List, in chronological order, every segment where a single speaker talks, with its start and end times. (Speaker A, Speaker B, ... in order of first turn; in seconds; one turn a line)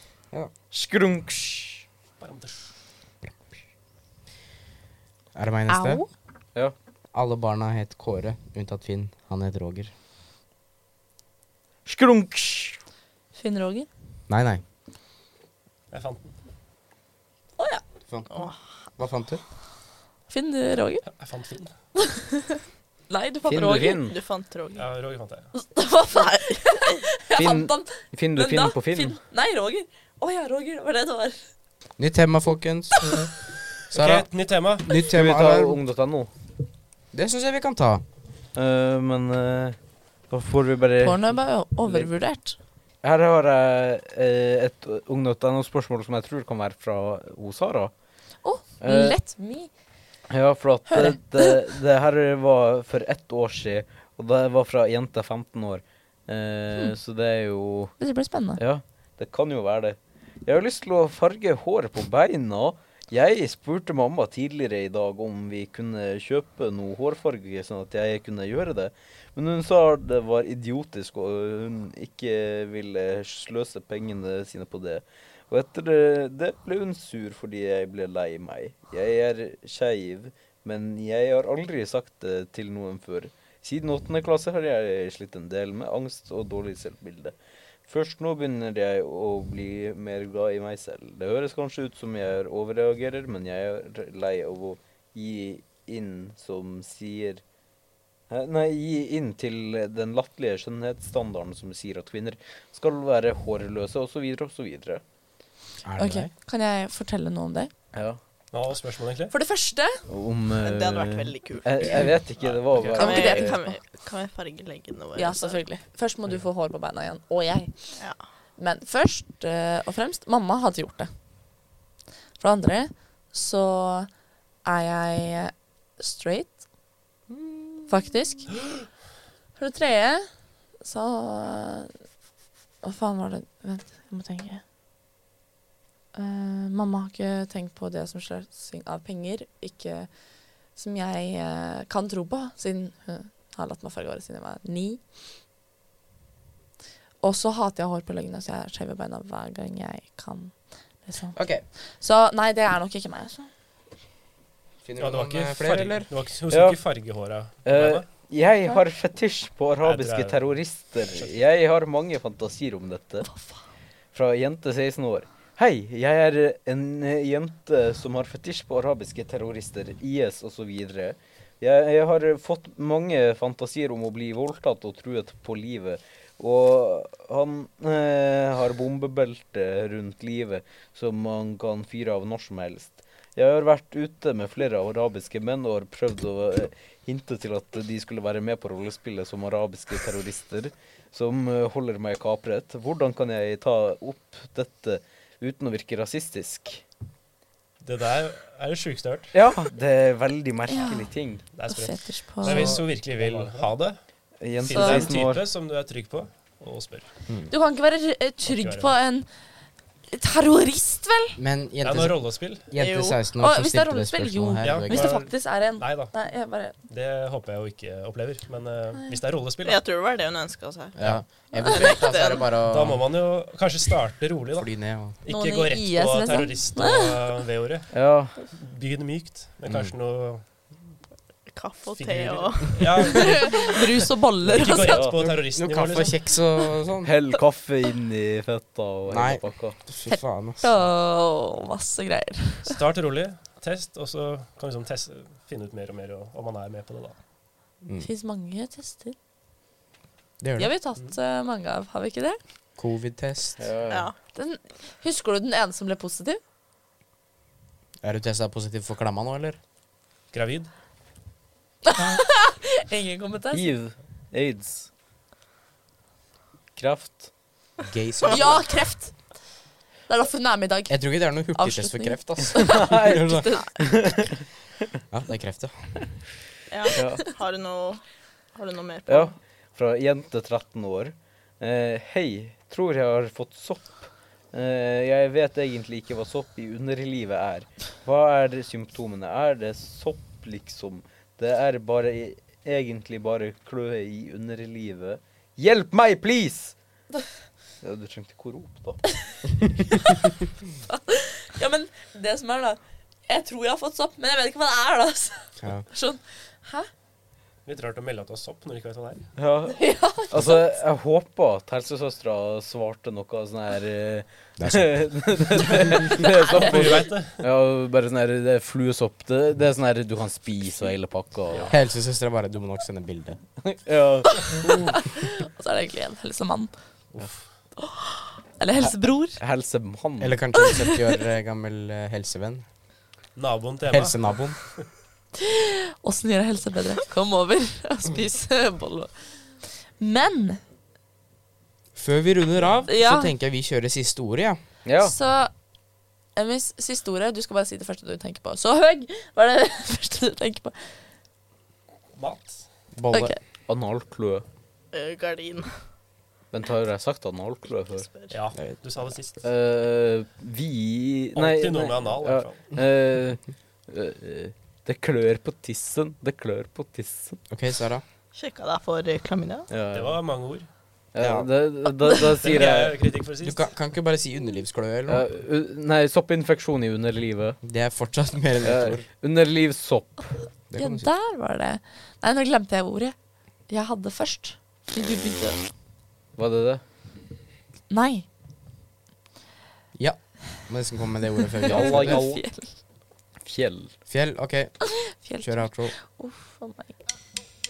Speaker A: 0.7-1.9
Speaker B: 2.2-2.7
Speaker C: 5.3-6.0
Speaker D: 5.7-6.1
Speaker C: 7.1-9.9
Speaker A: 11.8-12.8
Speaker D: 13.3-13.9
Speaker C: 14.3-14.6
Speaker B: 15.9-16.3
Speaker D: 17.6-17.8
Speaker C: 18.1-18.4
Speaker C: 19.0-19.4
Speaker D: 20.3-21.1
Speaker B: 21.1-21.7
Speaker D: 22.0-24.0
Speaker A: 23.5-24.2
Speaker E: 24.1-24.9
Speaker B: 24.8-25.5
Speaker D: 25.5-31.4
Speaker A: 27.4-29.2
Speaker C: 32.0-33.1
Speaker B: 33.8-34.9
Speaker C: 33.9-35.8
Speaker A: 35.0-36.3
Speaker C: 37.1-38.0
Speaker A: 38.5-39.8
Speaker A: 40.3-42.1
Speaker D: 41.0-42.6
Speaker A: 43.0-47.9
Speaker D: 48.4-49.7
Speaker A: 48.8-49.2
Speaker A: 50.3-58.0
Speaker D: 50.9-51.5
Speaker D: 58.0-58.6
Speaker A: 58.6-87.3
Speaker A: 87.9-97.4
Speaker A: 98.3-105.0
Speaker C: 105.8-106.3
Speaker D: 106.0-107.7
Speaker A: 107.9-108.2
Speaker B: 108.5-109.3
Speaker D: 109.3-110.0
Speaker A: 110.1-113.6
Speaker E: 110.6-112.1
Speaker B: 112.4-113.0
Speaker E: 112.9-115.7
Speaker D: 113.0-113.8
Speaker D: 115.2-118.0
Speaker E: 118.0-118.2
Speaker D: 118.6-121.1
Speaker D: 122.4-124.1
Speaker D: 124.6-126.6
Speaker C: 127.3-127.9
Speaker D: 127.9-128.5
Speaker D: 129.6-131.9
Speaker D: 132.8-134.6
Speaker D: 136.1-145.0
Speaker D: 147.2-153.5
Speaker C: 151.3-151.7
Speaker C: 154.8-156.1
Speaker B: 155.0-158.1
Speaker A: 156.5-156.8
Speaker A: 157.7-163.3
Speaker B: 159.8-161.3
Speaker D: 163.3-163.6
Speaker A: 164.1-196.8
Speaker B: 197.8-199.3
Speaker A: 199.3-201.4
Speaker D: 200.7-202.8
Speaker B: 201.5-204.0
Speaker A: 202.4-203.7
Speaker C: 202.5-202.8
Speaker A: 204.4-205.4
Speaker B: 204.6-207.1
Speaker D: 204.7-205.1
Speaker D: 207.5-209.3
Speaker B: 208.4-208.9
Speaker D: 210.1-211.4
Speaker C: 211.4-215.1
Speaker B: 211.8-212.6
Speaker E: 212.8-213.2
Speaker D: 213.4-216.8
Speaker B: 214.6-216.2
Speaker B: 216.8-219.8
Speaker E: 219.6-221.0
Speaker C: 221.0-223.1
Speaker D: 221.5-222.1
Speaker E: 221.6-222.5
Speaker B: 222.6-230.7
Speaker C: 224.6-225.2
Speaker D: 225.3-227.2
Speaker A: 227.9-228.4
Speaker C: 229.7-229.9
Speaker E: 231.5-233.5
Speaker B: 232.0-236.2
Speaker D: 233.1-235.0
Speaker A: 234.8-235.2
Speaker C: 235.4-237.1
Speaker A: 237.0-239.8
Speaker C: 239.1-240.7
Speaker D: 240.1-242.7
Speaker B: 242.7-247.2
Speaker D: 248.0-249.2
Speaker C: 250.4-250.7
Speaker D: 250.6-252.4
Speaker C: 252.8-253.7
Speaker A: 253.6-254.1
Speaker E: 253.9-254.2
Speaker D: 254.3-256.4
Speaker C: 258.0-259.6
Speaker B: 260.3-260.7
Speaker D: 261.9-263.7
Speaker A: 263.5-264.9
Speaker A: 266.8-267.3
Speaker C: 267.9-268.7
Speaker D: 268.3-269.2
Speaker D: 270.1-274.2
Speaker C: 270.9-273.9
Speaker A: 272.7-274.2
Speaker C: 275.1-275.9
Speaker E: 276.7-278.0
Speaker A: 276.9-277.3
Speaker E: 278.5-279.4
Speaker A: 279.1-296.8
Speaker A: 297.8-299.1
Speaker D: 300.9-306.9
Speaker B: 307.7-309.3
Speaker A: 309.4-321.8
Speaker D: 309.7-310.6
Speaker C: 314.6-315.0
Speaker D: 316.2-316.9
Speaker B: 316.2-317.5
Speaker C: 321.7-323.4
Speaker A: 323.6-324.9
Speaker D: 324.5-326.7
Speaker B: 327.1-327.4
Speaker D: 327.8-329.4
Speaker A: 328.8-330.4
Speaker C: 330.2-332.6
Speaker D: 330.6-331.0
Speaker B: 333.4-334.8
Speaker C: 333.9-334.6
Speaker D: 335.4-339.1
Speaker D: 340.0-340.6
Speaker C: 342.0-344.6
Speaker D: 342.9-343.3
Speaker A: 344.9-345.1
Speaker D: 345.0-345.5
Speaker D: 346.4-351.0
Speaker B: 352.1-352.6
Speaker C: 352.9-353.4
Speaker D: 353.1-353.4
Speaker A: 353.7-354.4
Speaker E: 354.9-355.9
Speaker A: 356.5-358.1
Speaker E: 358.1-358.4
Speaker B: 358.3-359.4
Speaker A: 359.4-367.4
Speaker B: 361.4-362.8
Speaker C: 367.5-368.0
Speaker E: 368.3-369.7
Speaker A: 369.7-370.2
Speaker B: 369.9-370.7
Speaker A: 371.1-373.0
Speaker C: 371.2-371.5
Speaker B: 372.4-373.6
Speaker C: 373.4-375.2
Speaker A: 375.1-377.6
Speaker C: 377.6-379.0
Speaker A: 378.6-380.4
Speaker C: 380.7-381.1
Speaker D: 380.8-383.1
Speaker D: 383.7-385.6
Speaker A: 386.4-386.8
Speaker D: 387.9-388.3
Speaker C: 389.9-392.2
Speaker A: 391.6-392.4
Speaker D: 391.7-392.7
Speaker A: 393.4-393.9
Speaker C: 394.1-395.9
Speaker D: 394.9-396.9